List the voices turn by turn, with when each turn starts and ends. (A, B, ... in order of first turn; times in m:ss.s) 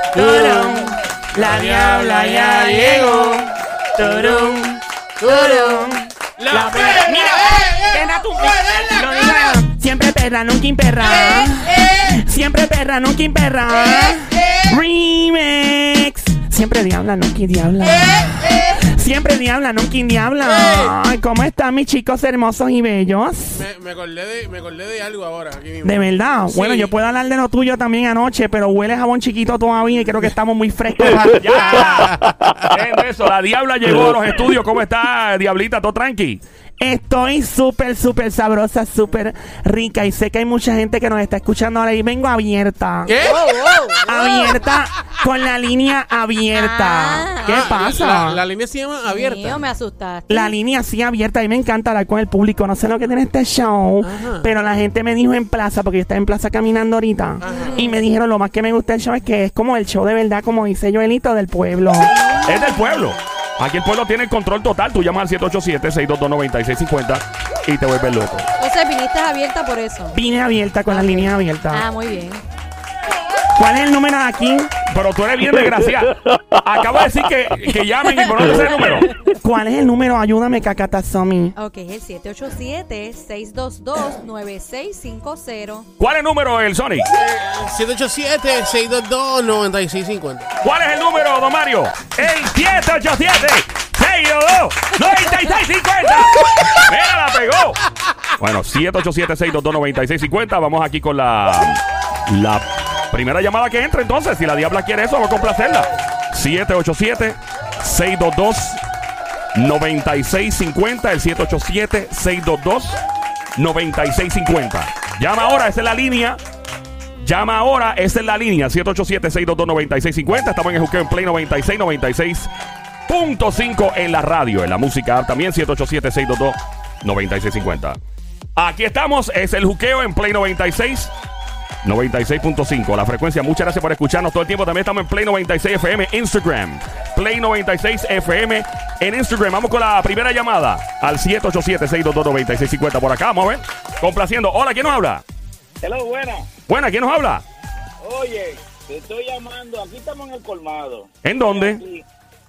0:00.1-0:03.4 A
0:00.2-0:23.6 B
0:04.0-0:04.6 A
0:05.2-0:09.6 A
0:11.2-0:11.4 A
0:17.9-0:18.8 A
0:20.4-0:21.0 A
0:23.6-0:26.9 A
0:25.8-0:32.0 B
0:31.4-0:36.4 C
0:36.8-0:43.2 B
0:43.1-0:43.4 A
0:43.2-0:44.6 D
0:44.0-0:48.4 B
0:46.6-0:47.7 D
0:47.4-0:49.6 A
0:49.1-0:50.5 D
0:50.3-1:02.1 B
0:54.0-0:54.5 A
0:57.4-0:57.8 A
0:57.5-0:57.9 D
1:02.1-1:02.9 D
1:02.4-1:08.5 C
1:08.6-1:10.2 D
1:10.1-1:11.8 B
1:10.9-1:12.4 D
1:13.6-1:14.8 B
1:14.9-1:19.1 C
1:19.4-1:21.5 B
1:21.6-1:25.9 D
1:26.0-1:27.1 C
1:27.1-1:30.5 A
1:30.6-1:37.8 C
1:38.4-1:48.8 C
1:49.5-1:53.0 C
1:53.6-1:56.4 C
1:57.2-2:02.5 C
2:03.1-2:08.0 C
2:08.6-2:11.1 C
2:11.8-2:25.2 C
2:25.8-2:26.5 E
2:26.7-2:27.4 C
2:28.0-2:32.0 E
2:31.2-2:31.8 C